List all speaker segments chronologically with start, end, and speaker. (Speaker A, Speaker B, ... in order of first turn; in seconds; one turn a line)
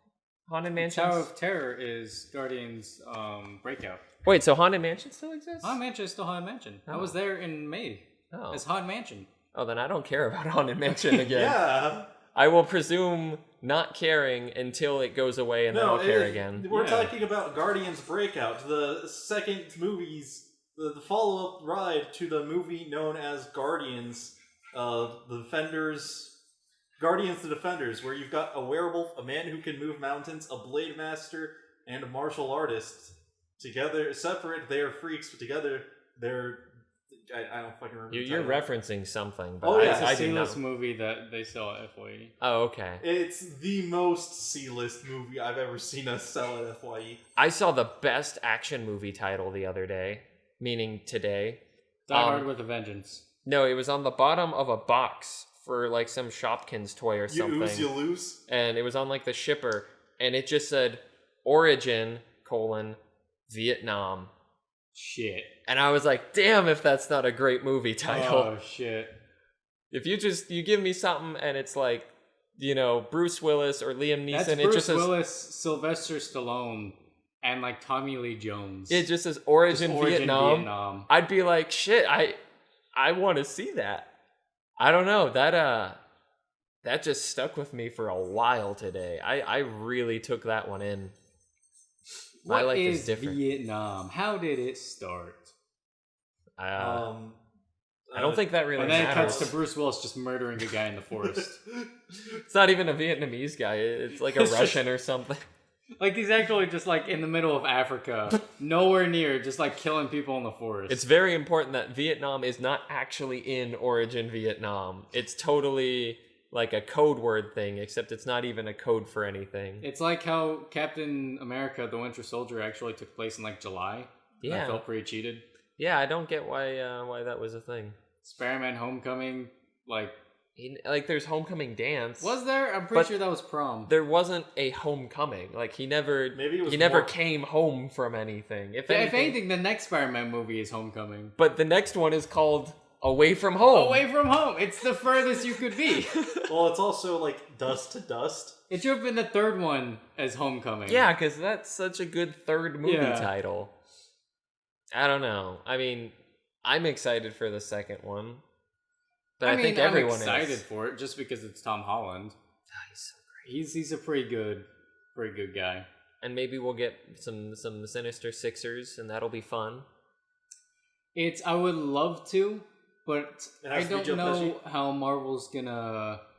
Speaker A: 0.5-1.3
Speaker B: 0.8-4.0
Speaker A: 4.2-5.8
Speaker B: 5.6-9.3
Speaker A: 6.9-7.2
Speaker A: 8.3-8.6
Speaker A: 9.5-11.6
Speaker C: 11.0-12.1
Speaker A: 12.3-16.6
Speaker C: 15.7-26.3
Speaker B: 16.7-17.1
Speaker C: 27.0-38.6
Speaker A: 38.1-40.6
Speaker C: 39.6-40.1
Speaker B: 39.7-42.3
Speaker A: 42.4-43.0
Speaker C: 43.0-47.2
Speaker A: 47.4-52.5
Speaker B: 52.1-53.2
Speaker A: 53.4-57.9
Speaker C: 57.3-58.4
Speaker A: 58.5-64.3
Speaker B: 64.9-65.5
Speaker A: 65.7-68.5
Speaker B: 68.0-69.1
Speaker A: 69.9-75.1
Speaker B: 74.3-79.1
Speaker A: 78.9-82.4
Speaker B: 79.7-81.1
Speaker A: 83.0-84.0
Speaker A: 84.8-86.0
Speaker A: 86.8-91.1
Speaker B: 92.4-95.5
Speaker A: 92.5-93.4
Speaker A: 96.6-97.0
Speaker C: 96.8-97.4
Speaker C: 98.1-99.5
Speaker A: 98.1-99.5
Speaker B: 98.8-101.6
Speaker C: 101.2-101.9
Speaker A: 102.5-105.4
Speaker B: 104.3-104.8
Speaker B: 106.0-111.0
Speaker A: 110.9-119.9
Speaker B: 119.8-125.4
Speaker A: 124.4-124.8
Speaker A: 125.8-128.0
Speaker B: 128.2-130.1
Speaker A: 130.6-132.4
Speaker B: 132.2-133.9
Speaker A: 133.9-139.4
Speaker C: 136.3-137.1
Speaker B: 138.9-141.3
Speaker A: 141.4-144.0
Speaker B: 143.7-146.2
Speaker A: 145.9-146.4
Speaker C: 146.5-148.6
Speaker B: 148.7-151.1
Speaker A: 150.8-153.7
Speaker B: 152.8-153.3
Speaker A: 154.9-158.4
Speaker A: 159.4-160.6
Speaker B: 159.4-162.3
Speaker A: 162.7-163.5
Speaker B: 163.4-165.8
Speaker A: 166.2-169.8
Speaker B: 171.1-176.2
Speaker C: 173.6-174.6